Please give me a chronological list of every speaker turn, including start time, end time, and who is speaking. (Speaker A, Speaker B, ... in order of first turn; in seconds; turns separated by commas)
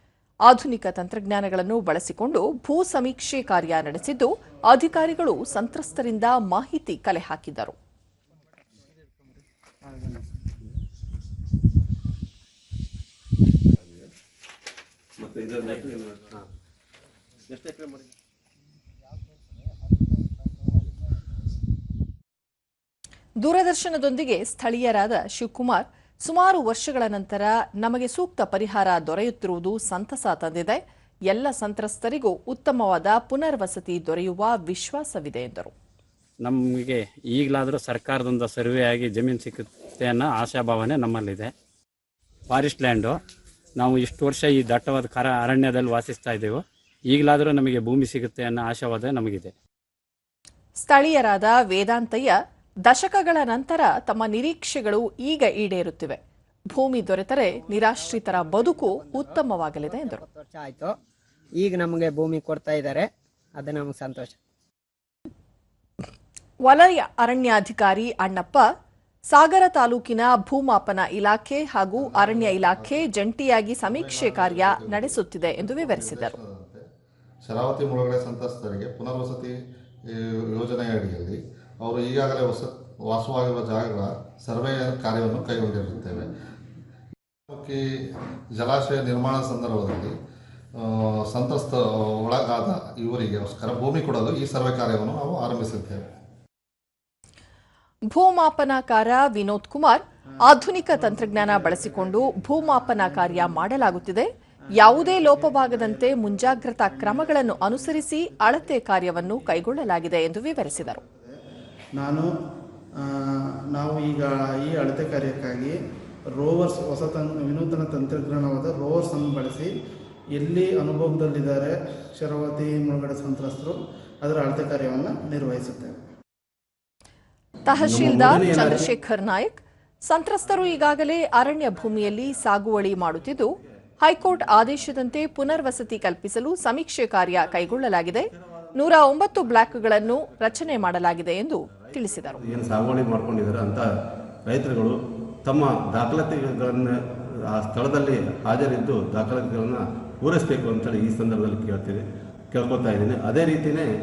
Speaker A: 0.5-7.8, Speaker B: 9.9-10.2, Speaker C: 15.2-16.4, Speaker C: 17.5-18.1, Speaker A: 23.4-35.7, Speaker D: 36.4-41.5, Speaker D: 42.5-43.2, Speaker D: 43.8-49.5, Speaker A: 50.8-52.4, Speaker A: 52.9-56.2, Speaker A: 56.7-60.2, Speaker E: 57.5-61.0, Speaker E: 61.6-64.4, Speaker A: 66.6-68.7, Speaker A: 69.3-76.3, Speaker F: 72.0-73.1, Speaker F: 73.8-76.8, Speaker F: 77.4-86.3, Speaker F: 87.5-90.2, Speaker F: 90.8-96.1, Speaker A: 98.1-111.0, Speaker B: 100.9-103.9, Speaker B: 104.8-111.3, Speaker B: 112.0-112.3, Speaker B: 113.0-115.8, Speaker B: 116.4-119.7, Speaker B: 120.4-126.0, Speaker A: 127.7-142.4, Speaker C: 127.8-128.9, Speaker C: 130.4-135.8, Speaker C: 137.3-143.9, Speaker C: 144.5-153.9